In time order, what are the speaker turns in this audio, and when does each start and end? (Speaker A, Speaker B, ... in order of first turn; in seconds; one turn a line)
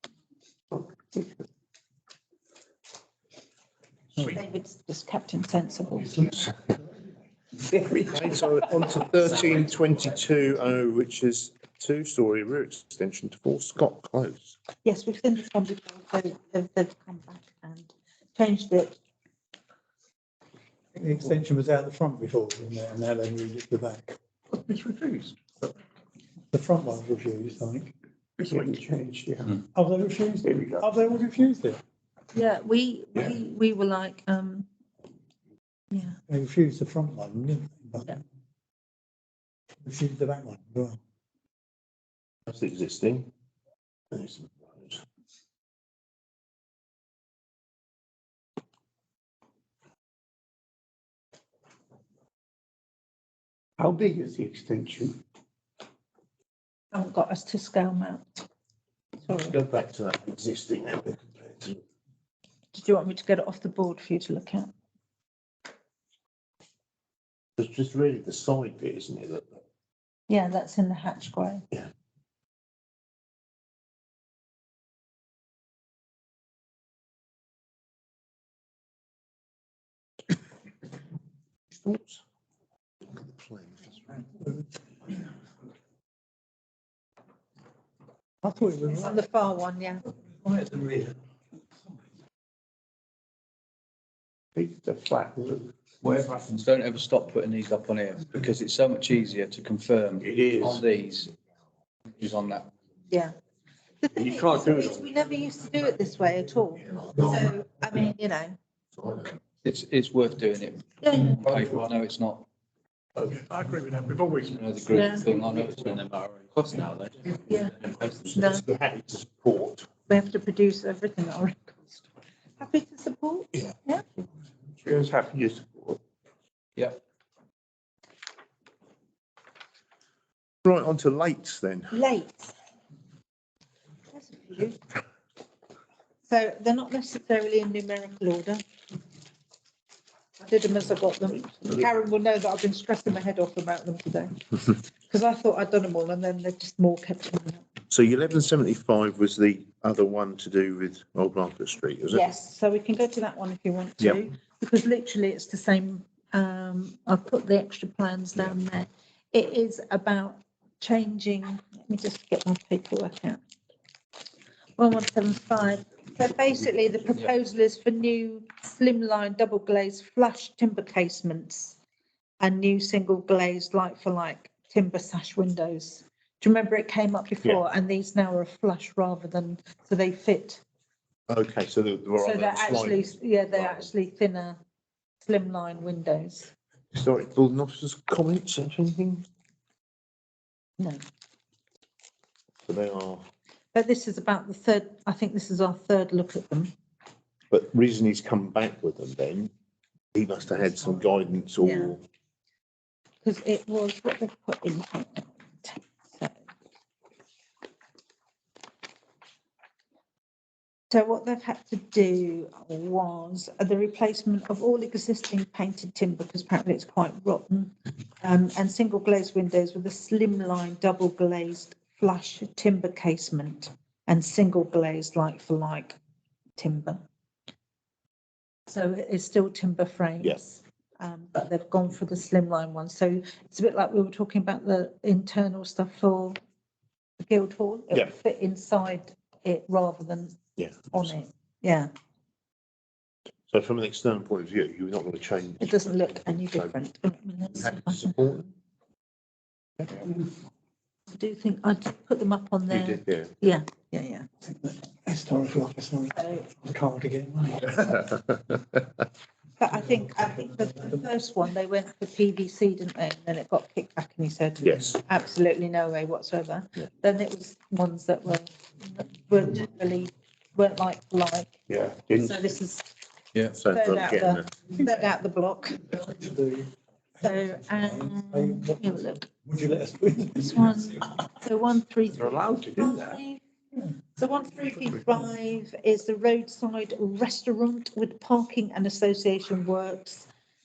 Speaker A: 0.8-1.2
Speaker B: 4.2-6.5
Speaker C: 7.9-14.6
Speaker B: 14.8-19.0
Speaker D: 21.0-24.2
Speaker A: 24.5-25.5
Speaker D: 26.5-27.9
Speaker A: 28.4-29.6
Speaker D: 29.7-31.8
Speaker A: 30.4-30.9
Speaker B: 32.3-34.7
Speaker B: 35.9-36.2
Speaker D: 36.3-38.2
Speaker D: 39.8-41.0
Speaker C: 42.5-43.3
Speaker C: 44.1-45.0
Speaker A: 53.8-55.2
Speaker B: 56.9-58.5
Speaker B: 59.2-59.6
Speaker C: 59.5-61.8
Speaker B: 62.7-64.7
Speaker C: 67.6-69.6
Speaker B: 70.3-71.7
Speaker C: 81.7-82.2
Speaker C: 83.1-84.0
Speaker D: 88.4-89.2
Speaker B: 88.9-90.0
Speaker D: 90.4-91.2
Speaker A: 94.5-96.2
Speaker E: 96.0-101.3
Speaker A: 100.2-100.8
Speaker E: 102.2-102.7
Speaker B: 104.0-108.6
Speaker A: 104.2-105.0
Speaker E: 109.6-112.5
Speaker B: 111.0-111.4
Speaker A: 113.2-114.6
Speaker E: 114.5-118.0
Speaker B: 114.9-115.3
Speaker B: 117.5-117.8
Speaker C: 118.0-119.9
Speaker B: 118.3-118.6
Speaker B: 120.1-122.1
Speaker B: 122.6-124.0
Speaker A: 124.8-126.0
Speaker C: 130.6-131.9
Speaker B: 131.9-132.5
Speaker B: 134.1-134.8
Speaker B: 136.3-138.6
Speaker B: 140.4-144.3
Speaker B: 145.1-147.6
Speaker C: 147.9-152.3
Speaker B: 152.1-163.4
Speaker B: 164.8-171.8
Speaker B: 172.4-180.6
Speaker C: 181.3-183.9
Speaker B: 182.2-184.6
Speaker B: 185.2-186.5
Speaker C: 186.9-189.2
Speaker C: 192.7-193.3
Speaker B: 193.7-196.7
Speaker C: 197.5-199.5
Speaker C: 200.2-202.0
Speaker B: 201.6-202.0
Speaker B: 203.2-206.4
Speaker B: 210.9-226.0
Speaker B: 226.6-227.0
Speaker B: 228.7-236.4
Speaker B: 237.2-240.4
Speaker C: 240.6-241.1
Speaker B: 240.9-241.9
Speaker C: 243.5-246.8
Speaker B: 245.6-248.1
Speaker C: 247.6-248.5
Speaker B: 251.1-254.3
Speaker C: 252.7-253.3
Speaker D: 254.5-258.0
Speaker B: 256.2-256.5
Speaker B: 259.6-271.6
Speaker C: 264.6-264.9
Speaker A: 271.7-272.5
Speaker B: 272.2-272.8
Speaker C: 273.6-274.4
Speaker B: 273.7-276.0
Speaker D: 276.0-276.7
Speaker B: 277.2-279.3
Speaker D: 277.2-280.8
Speaker B: 280.5-283.4
Speaker A: 282.2-283.2
Speaker B: 284.2-290.3